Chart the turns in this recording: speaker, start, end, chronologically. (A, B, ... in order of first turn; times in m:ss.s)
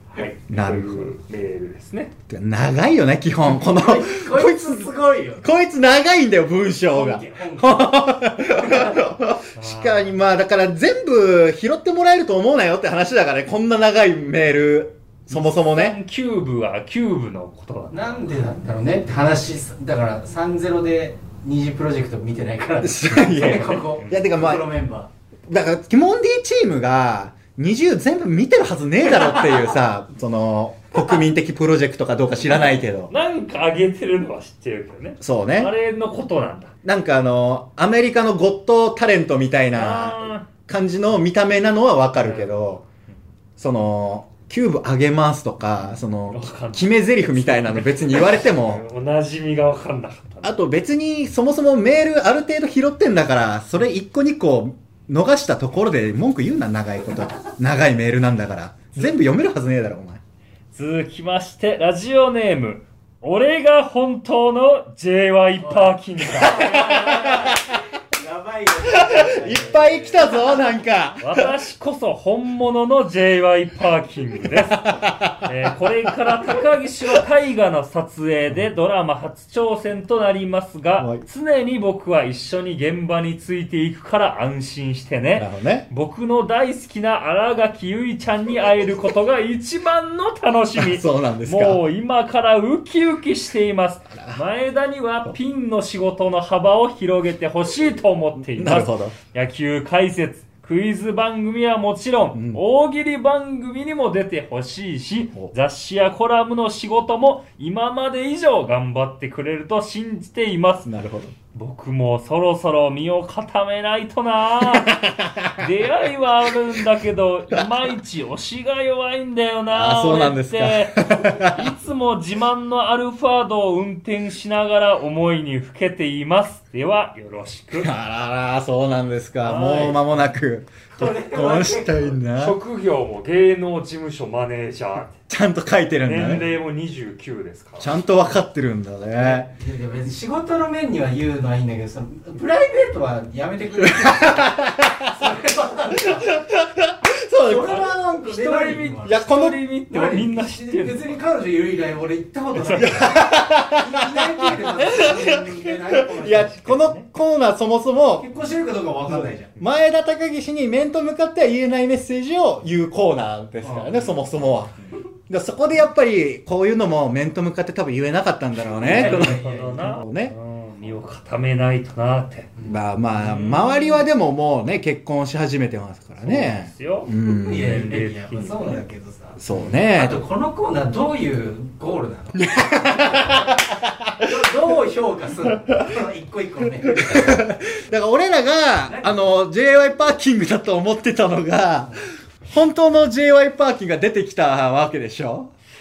0:00.2-0:02.1 A
0:00.5-0:01.1 B
0:02.3-0:16.0 B
0:03.6-0:05.4 C
0:06.9-0:09.0 C
0:09.6-0:10.2 A
0:15.3-0:18.2 A
0:17.9-0:25.1 C
0:22.8-0:24.6 B
0:23.3-0:24.2 A
0:25.5-0:33.1 B
0:33.1-0:36.7 A
0:35.2-0:35.7 B
0:36.8-0:42.8 B
0:39.7-0:40.5 A
0:42.2-0:42.6 A
0:43.6-0:48.8 B
0:46.3-0:50.6 A
0:50.4-1:00.2 B
1:00.7-1:07.0 A
1:05.6-1:10.4 C
1:06.3-1:07.8 B
1:08.9-1:11.5 B
1:09.8-1:10.1 A
1:11.2-1:50.9 A
1:14.7-1:15.5 B
1:21.0-1:21.2 B
1:25.4-1:25.9 B
1:30.8-1:31.8 B
1:34.1-1:34.4 B
1:38.5-1:39.2 B
1:42.3-1:42.6 B
1:50.8-1:51.3 B
1:51.5-2:07.9 A
1:54.6-1:55.7 B
1:59.7-2:01.7 B
2:07.8-2:12.6 B
2:09.4-2:10.2 A
2:10.9-2:12.2 C
2:12.4-2:15.2 A
2:15.3-2:16.5 B
2:16.0-2:17.9 A
2:17.8-2:19.5 B
2:19.5-2:26.4 C
2:23.8-2:25.3 B
2:26.0-2:27.9 B
2:27.5-2:29.2 C
2:27.7-2:31.1 A
2:29.0-2:29.6 B
2:29.9-2:36.7 C
2:32.6-2:33.0 A
2:32.8-2:38.3 B
2:36.4-2:37.1 A
2:38.2-2:39.5 C
2:39.2-2:50.3 B
2:43.6-2:44.1 C
2:48.8-2:49.9 C
2:48.8-2:52.6 A
2:52.6-2:57.9 B
2:56.2-2:58.8 A
2:57.2-3:03.5 C
2:59.4-3:00.2 B
3:02.4-3:04.3 B
3:04.2-3:07.5 C
3:07.0-3:15.5 B
3:08.9-3:09.2 C